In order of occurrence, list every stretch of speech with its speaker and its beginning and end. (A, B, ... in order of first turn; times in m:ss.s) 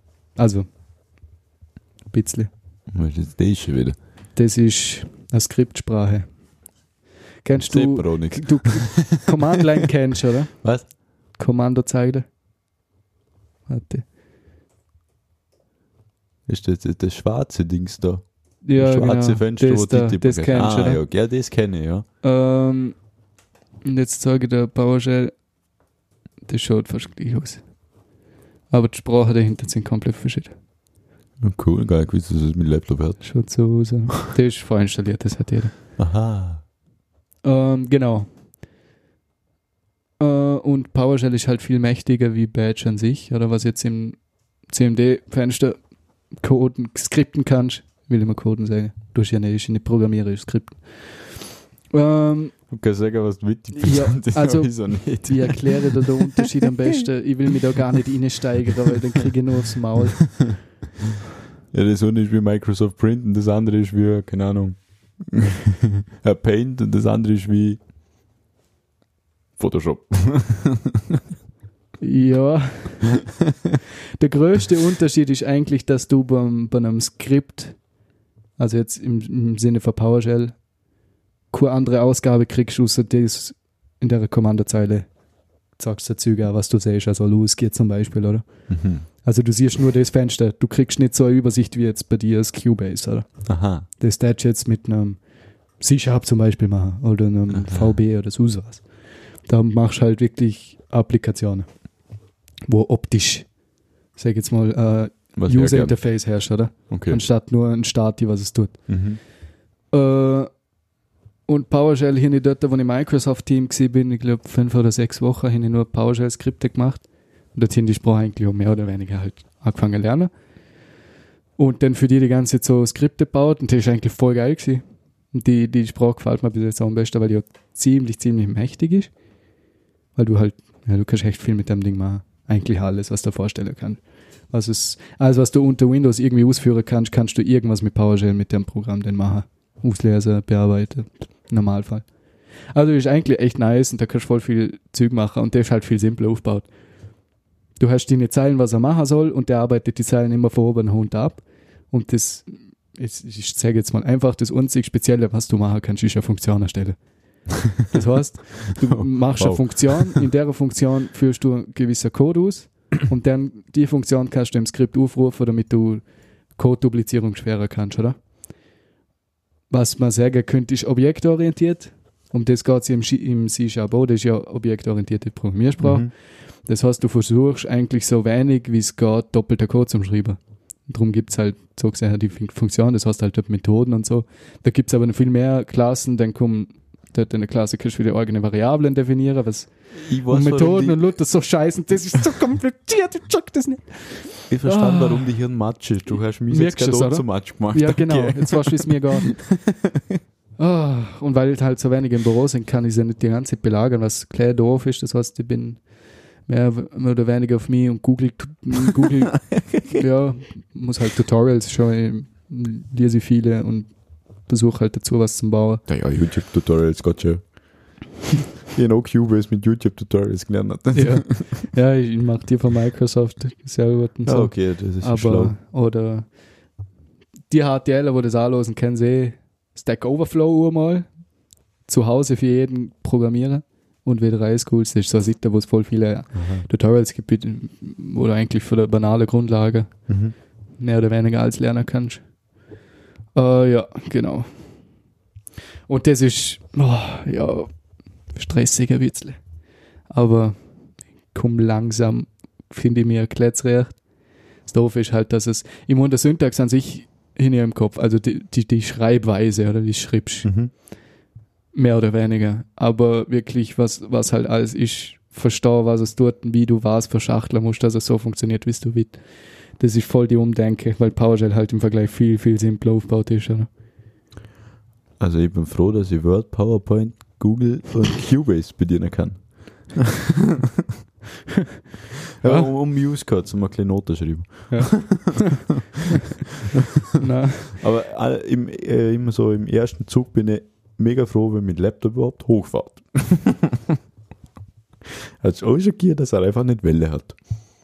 0:00.4-0:00.6 A
0:02.1-0:02.5 A
0:02.9-0:04.0 B
0:04.4-0:06.2 A
0:07.4-0:10.6 A
0:07.6-0:09.9 B
0:11.4-0:12.2 A
0:13.7-0:14.0 A
0:16.5-0:18.2 B
0:18.6-0:21.0 A
0:18.8-0:22.0 B
0:22.2-0:23.0 A
0:23.8-0:25.3 A
0:26.5-0:27.6 A
0:28.7-0:30.5 A
0:31.4-0:33.2 B
0:33.2-0:35.7 A
0:36.0-0:36.6 B
0:37.4-0:38.3 A
0:40.2-0:44.2 A
0:44.7-0:45.8 A
0:46.4-0:52.5 A
0:52.7-0:56.6 B
0:53.7-1:00.4 A
1:01.7-1:07.8 B
1:09.6-1:11.2 B
1:12.0-1:13.2 A
1:14.2-1:17.8 A
1:18.6-1:20.6 A
1:21.5-1:25.1 A
1:25.8-1:28.4 A
1:28.7-1:29.0 B
1:29.2-1:33.3 A
1:33.4-1:33.9 B
1:34.0-1:35.2 A
1:35.8-1:38.8 A
1:37.5-1:37.9 B
1:39.5-1:41.6 A
1:42.7-1:43.5 A
1:44.2-1:48.8 A
1:45.4-1:46.0 B
1:46.9-1:47.2 B
1:48.9-1:49.2 B
1:49.9-1:50.5 A
1:51.5-1:57.0 A
1:57.5-2:00.3 A
2:01.6-2:09.1 A
2:10.2-2:14.0 A
2:14.5-2:22.0 A
2:22.7-2:26.7 A
2:27.8-2:37.0 A
2:37.9-2:46.0 A
2:38.8-2:40.2 B
2:46.6-2:48.2 A
2:49.7-2:56.1 A
2:55.8-2:56.1 B
2:56.7-3:15.3 A
3:09.9-3:11.0 B
3:14.5-3:20.0 B
3:16.5-3:19.4 A
3:20.6-3:25.8 A
3:26.5-3:33.9 A
3:29.6-3:29.8 B
3:34.4-3:35.8 A
3:35.9-3:37.5 B
3:38.7-3:41.4 B
3:40.9-3:46.2 A
3:44.2-3:45.5 B
3:47.5-3:51.1 A
3:51.9-3:59.9 A
3:56.3-3:56.6 B
4:00.1-4:00.3 B
4:00.8-4:02.2 A
4:03.4-4:04.5 A
4:05.9-4:07.7 A
4:08.3-4:09.4 A
4:10.1-4:10.6 A
4:11.3-4:14.0 A
4:14.7-4:20.5 A
4:20.4-4:20.7 B
4:21.7-4:29.2 A
4:29.8-4:33.7 A
4:35.2-4:40.9 B
4:42.4-4:46.0 B
4:42.4-4:42.7 A
4:44.7-4:45.6 A
4:46.6-4:54.0 B
4:47.2-4:47.8 A
4:55.1-4:57.4 B